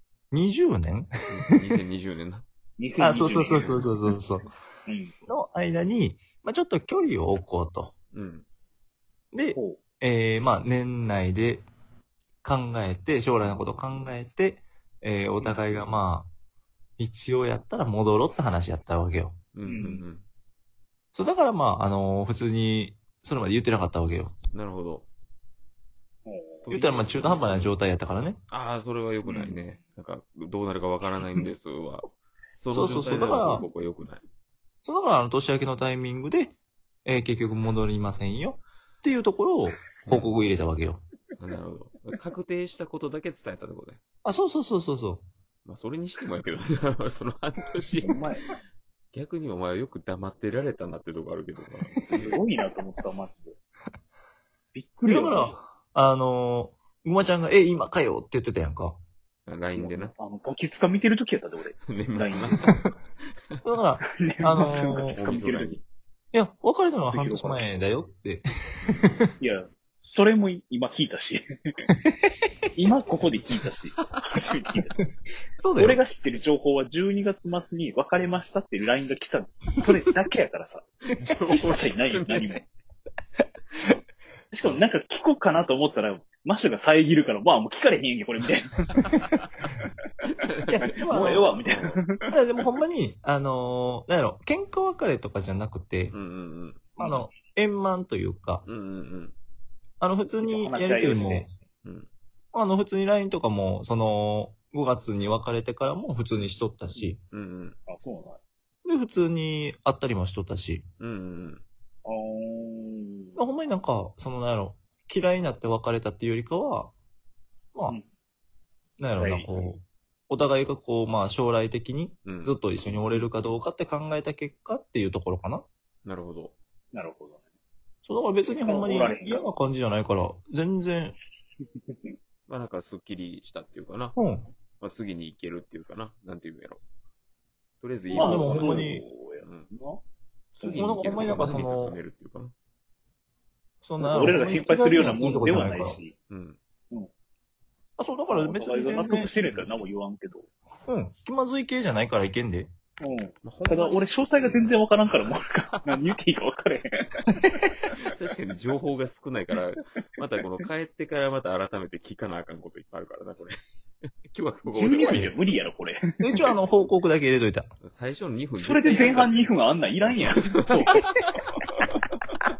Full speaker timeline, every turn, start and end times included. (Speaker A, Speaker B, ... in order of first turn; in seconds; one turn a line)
Speaker A: 0.3-1.1
Speaker B: 1.3-2.5
Speaker C: 2.8-3.9
Speaker A: 3.0-4.5
Speaker B: 3.5-3.8
Speaker C: 4.9-5.1
Speaker A: 5.3-7.9
Speaker B: 8.1-8.4
Speaker A: 9.3-11.7
Speaker A: 12.4-16.3
Speaker A: 17.0-19.4
Speaker B: 19.5-20.2
Speaker C: 19.6-20.0
Speaker A: 21.1-24.4
Speaker B: 24.5-25.1
Speaker C: 26.3-26.7
Speaker B: 26.6-27.8
Speaker A: 26.7-28.4
Speaker B: 28.5-34.2
Speaker C: 29.2-29.6
Speaker A: 32.7-33.7
Speaker A: 34.9-41.0
Speaker B: 40.1-40.3
Speaker B: 41.4-44.0
Speaker A: 44.2-45.3
Speaker B: 45.6-48.6
Speaker C: 48.0-48.5
Speaker B: 49.1-52.4
Speaker C: 52.1-53.6
Speaker C: 54.7-55.6
Speaker A: 55.1-59.0
Speaker B: 59.5-60.1
Speaker C: 59.8-62.5
Speaker B: 61.9-62.9
Speaker A: 63.6-65.2
Speaker C: 64.0-65.8
Speaker B: 65.1-65.8
Speaker A: 66.3-69.2
Speaker C: 67.1-67.7
Speaker C: 69.4-71.4
Speaker C: 72.8-75.0
Speaker B: 73.2-74.3
Speaker A: 75.6-76.0
Speaker C: 75.8-82.7
Speaker B: 81.1-82.6
Speaker C: 84.5-88.8
Speaker B: 90.2-92.0
Speaker A: 90.7-91.6
Speaker C: 91.0-92.3
Speaker A: 92.3-96.2
Speaker B: 96.1-96.9
Speaker A: 97.0-98.7
Speaker C: 97.0-97.3
Speaker B: 98.7-99.3
Speaker A: 100.0-101.5
Speaker C: 100.4-101.5
Speaker A: 102.5-107.2
Speaker B: 107.3-107.8
Speaker C: 107.9-108.4
Speaker A: 108.8-110.8
Speaker B: 111.0-111.6
Speaker C: 112.0-113.4
Speaker A: 113.4-116.9
Speaker A: 119.0-125.7
Speaker C: 119.2-119.7
Speaker B: 122.2-122.6
Speaker B: 126.0-126.5
Speaker C: 126.9-127.5
Speaker A: 128.1-131.2
Speaker C: 128.5-129.5
Speaker B: 132.5-134.2
Speaker A: 134.2-134.5
Speaker B: 134.8-136.8
Speaker B: 137.8-139.7
Speaker C: 138.1-140.0
Speaker A: 138.1-139.0
Speaker B: 140.6-142.5
Speaker C: 140.6-141.7
Speaker A: 140.7-142.0
Speaker A: 143.8-146.0
Speaker C: 144.0-146.1
Speaker B: 146.3-146.6
Speaker A: 148.0-149.4
Speaker C: 148.3-150.5
Speaker B: 149.4-149.7
Speaker A: 150.9-152.7
Speaker C: 153.0-157.6
Speaker B: 153.4-156.1
Speaker B: 157.9-163.5
Speaker B: 164.3-165.4
Speaker C: 164.7-166.6
Speaker A: 166.2-167.7
Speaker B: 167.8-169.5
Speaker C: 168.6-171.2
Speaker B: 170.0-171.6